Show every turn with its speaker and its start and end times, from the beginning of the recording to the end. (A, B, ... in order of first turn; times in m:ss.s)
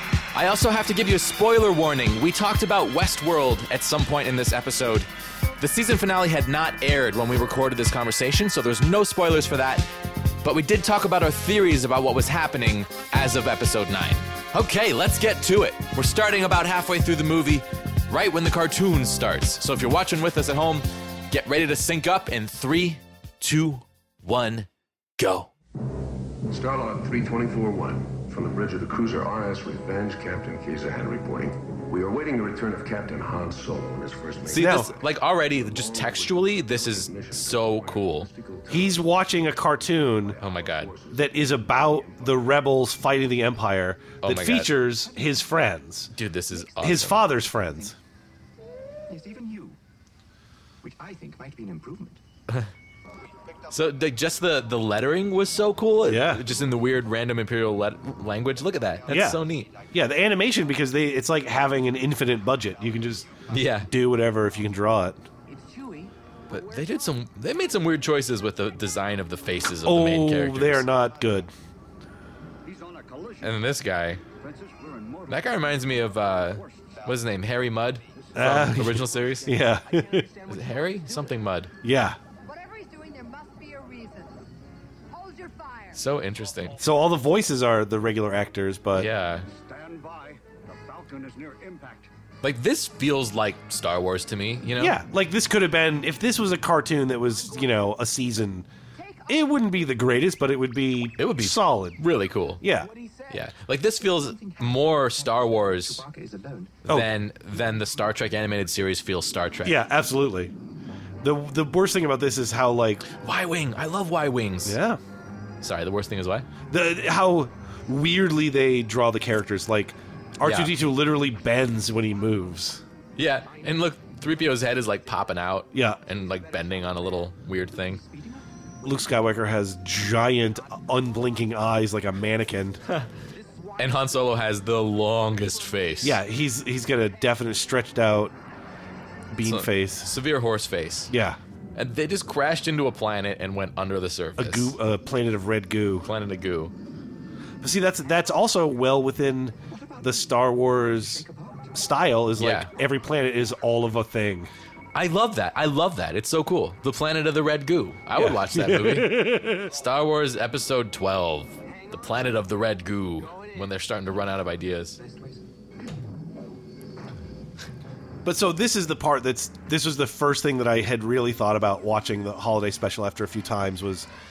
0:00.3-0:09.9 A
0:10.4-0:25.5 A
0:26.5-0:39.2 B
0:34.5-0:38.3 A
0:34.5-0:34.9 C
0:38.7-0:40.4 C
0:40.1-0:42.5 B
0:40.4-0:40.9 A
0:41.1-0:46.1 C
0:44.2-0:44.8 A
0:46.1-0:47.3 A
0:46.8-0:48.0 C
0:49.1-0:49.8 D
0:50.8-0:52.2 D
0:53.7-0:59.7 A
0:56.0-0:56.4 C
0:59.1-1:05.2 C
1:03.5-1:03.9 A
1:05.5-1:07.1 D
1:06.5-1:10.9 A
1:09.8-1:11.5 C
1:12.6-1:13.6 D
1:13.4-1:14.2 A
1:14.4-1:17.1 D
1:15.3-1:19.6 A
1:18.2-1:21.4 D
1:18.4-1:20.2 C
1:20.5-1:21.7 A
1:21.8-1:22.2 C
1:22.4-1:24.4 E
1:25.1-1:26.0 E
1:25.9-1:26.8 A
1:26.8-1:29.1 C
1:28.9-1:29.5 A
1:29.5-1:32.1 D
1:32.4-1:35.0 A
1:34.8-1:38.7 C
1:37.3-1:37.9 D
1:39.0-1:39.4 D
1:39.3-1:42.0 C
1:41.2-1:42.6 A
1:42.6-1:42.9 C
1:42.6-1:46.8 D
1:43.3-1:46.0 A
1:46.8-1:49.8 A
1:46.9-1:47.1 C
1:49.6-1:50.5 C
1:51.2-1:53.1 C
1:53.2-1:54.8 A
1:54.6-1:55.0 C
1:55.6-1:56.5 A
1:56.7-2:02.8 C
2:00.4-2:00.8 A
2:03.2-2:08.0 A
2:03.2-2:04.8 D
2:05.7-2:06.0 C
2:06.1-2:08.5 D
2:08.8-2:12.8 C
2:10.5-2:11.0 D
2:13.1-2:16.0 D
2:13.8-2:16.2 A
2:16.0-2:18.3 C
2:19.3-2:20.1 C
2:19.4-2:21.1 A
2:21.1-2:21.4 C
2:21.8-2:24.8 A
2:24.4-2:26.1 C
2:26.0-2:26.7 A
2:27.6-2:34.5 C
2:29.7-2:32.0 D
2:32.4-2:32.7 A
2:34.9-2:45.0 A
2:38.1-2:39.7 C
2:41.7-2:42.2 D
2:43.2-2:43.8 D
2:45.0-2:45.4 D
2:48.2-2:54.1 C